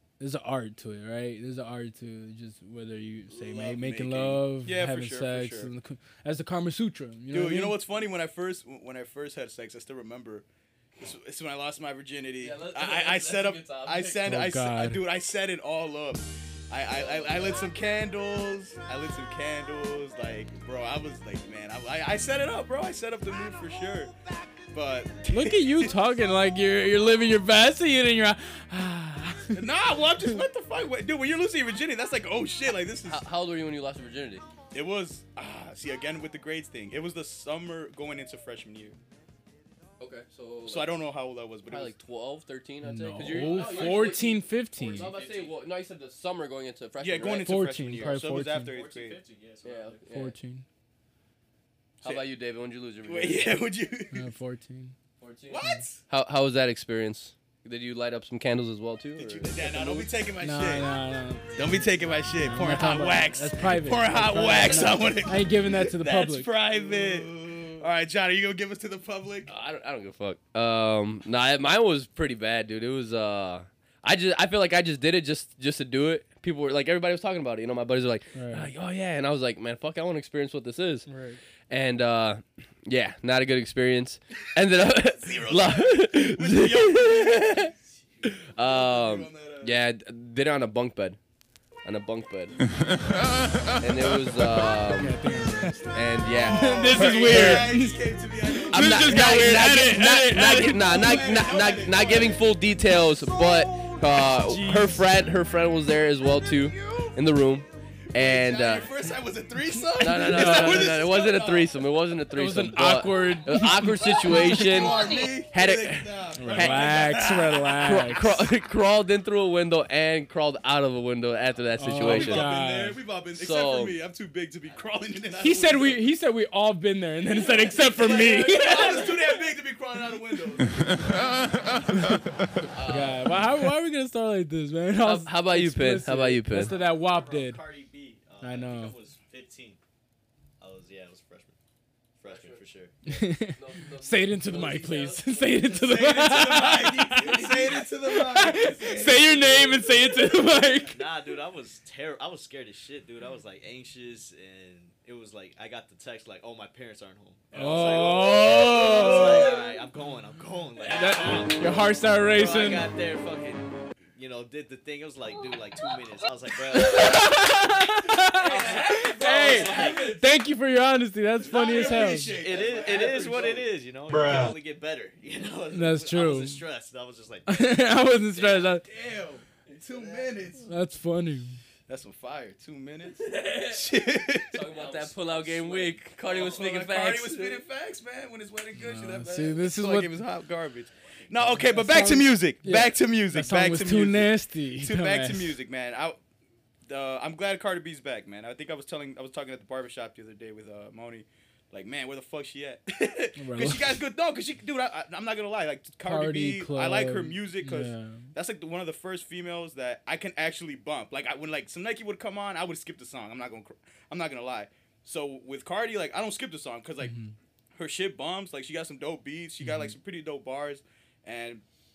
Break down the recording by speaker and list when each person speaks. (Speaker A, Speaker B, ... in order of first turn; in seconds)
Speaker A: 0.2-7.8, 14.2-15.0, 25.3-29.7, 42.8-45.1, 47.4-48.8, 50.1-50.7, 54.1-55.0, 60.4-61.5, 62.4-66.5, 78.3-78.7, 81.1-81.4, 94.9-95.9, 96.5-101.0, 104.4-105.0, 110.2-110.9, 112.3-114.6, 116.4-118.3, 121.8-123.0, 125.4-129.0, 132.9-137.6, 138.4-139.0, 143.1-151.1, 157.5-159.6, 160.9-162.9, 166.7-172.4, 175.7-176.6, 177.5-178.8, 180.7-181.6, 188.8-190.2, 191.4-195.6, 203.4-204.0, 206.0-208.3, 217.0-217.3, 219.6-219.9
Speaker B: 3.3-5.7, 7.3-10.4, 11.0-24.1, 24.7-26.1, 29.5-33.2, 34.7-39.0, 40.7-42.0, 47.0-49.2, 53.0-54.2, 55.5-56.0, 59.2-60.9, 61.5-69.5, 85.0-87.6, 88.6-89.8, 96.3-102.5, 103.9-104.2, 108.1-111.8, 114.0-118.2, 122.0-126.0, 128.2-131.2, 145.8-149.9, 157.6-159.8, 168.5-170.1, 171.4-173.7, 178.8-180.7, 181.9-184.7, 186.3-196.2, 196.9-217.2, 217.8-221.6
Speaker C: 12.4-14.2, 16.9-17.7, 33.1-34.5, 40.0-41.0, 41.7-47.6, 49.6-50.4, 52.0-53.5, 55.2-60.0, 69.5-81.1, 81.7-87.7, 88.3-91.2, 91.8-92.6, 93.8-95.2, 95.9-97.7, 98.7-108.9, 110.0-117.2, 117.8-122.5, 123.4-124.0, 127.3-129.4, 132.7-133.4, 135.0-136.7, 142.2-142.6, 143.4-146.4, 168.5-170.2, 183.2-183.9, 184.5-187.6
Speaker D: 43.4-45.6, 48.6-50.1, 66.7-67.8, 87.6-88.5, 124.7-125.8, 136.5-139.8, 140.6-141.6, 142.2-143.0, 146.6-147.9, 150.9-167.4, 168.4-170.2, 171.6-178.8, 179.8-180.3, 184.7-186.7